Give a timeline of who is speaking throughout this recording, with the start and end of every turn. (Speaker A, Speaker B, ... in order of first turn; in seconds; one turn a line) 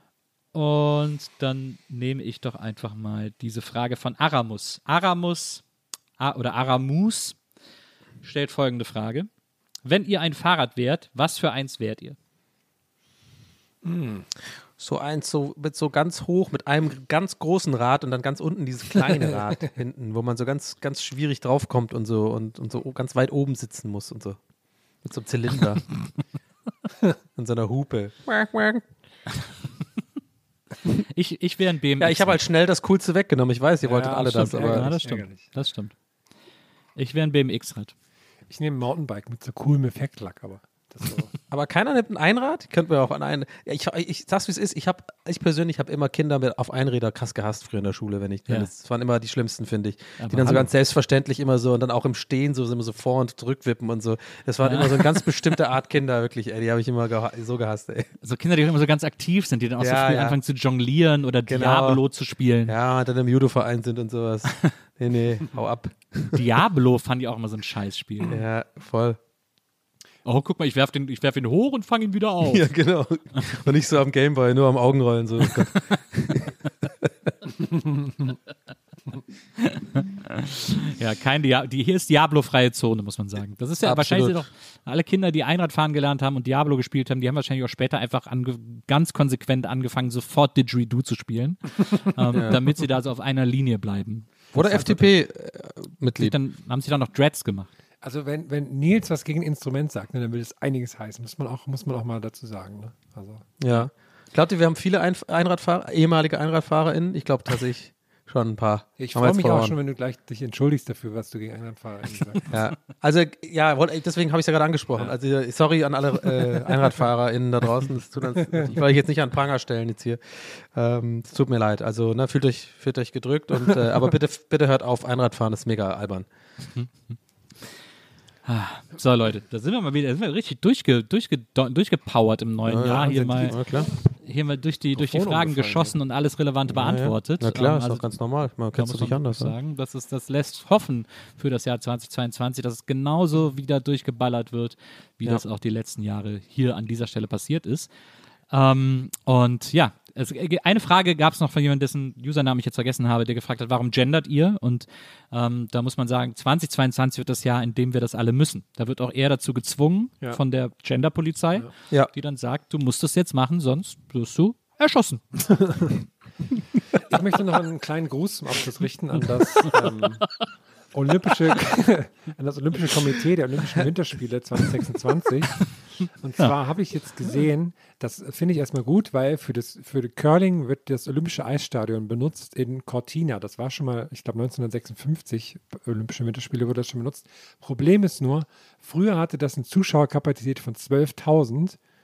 Speaker A: 0.5-5.6
Speaker A: 6.2-7.4
Speaker A: 8.2-9.3
Speaker A: 9.8-12.2
Speaker B: 13.8-14.3
Speaker C: 14.8-24.4
Speaker C: 25.0-25.9
Speaker C: 27.4-28.8
Speaker A: 31.1-32.4
Speaker C: 32.0-34.9
Speaker B: 33.8-35.5
Speaker A: 34.3-35.9
Speaker A: 37.0-37.9
Speaker B: 38.5-41.3
Speaker C: 41.5-58.1
Speaker A: 50.2-50.7
Speaker A: 54.6-55.2
Speaker A: 58.2-62.7
Speaker C: 59.8-60.4
Speaker C: 61.5-62.0
Speaker C: 62.7-66.4
Speaker A: 66.3-68.4
Speaker C: 68.3-69.2
Speaker A: 70.2-72.7
Speaker C: 72.4-76.6
Speaker A: 79.6-94.8
Speaker C: 83.8-84.4
Speaker C: 94.5-96.3
Speaker B: 94.5-95.1
Speaker A: 96.1-97.7
Speaker B: 98.0-103.5
Speaker C: 103.6-109.8
Speaker B: 109.0-112.5
Speaker C: 112.5-126.3
Speaker B: 118.4-118.7
Speaker A: 126.7-127.2
Speaker A: 128.4-138.1
Speaker C: 132.7-133.9
Speaker B: 133.0-133.5
Speaker B: 134.9-136.0
Speaker C: 136.7-139.5
Speaker A: 138.7-147.9
Speaker A: 148.5-165.5
Speaker B: 167.1-170.3
Speaker B: 170.9-191.8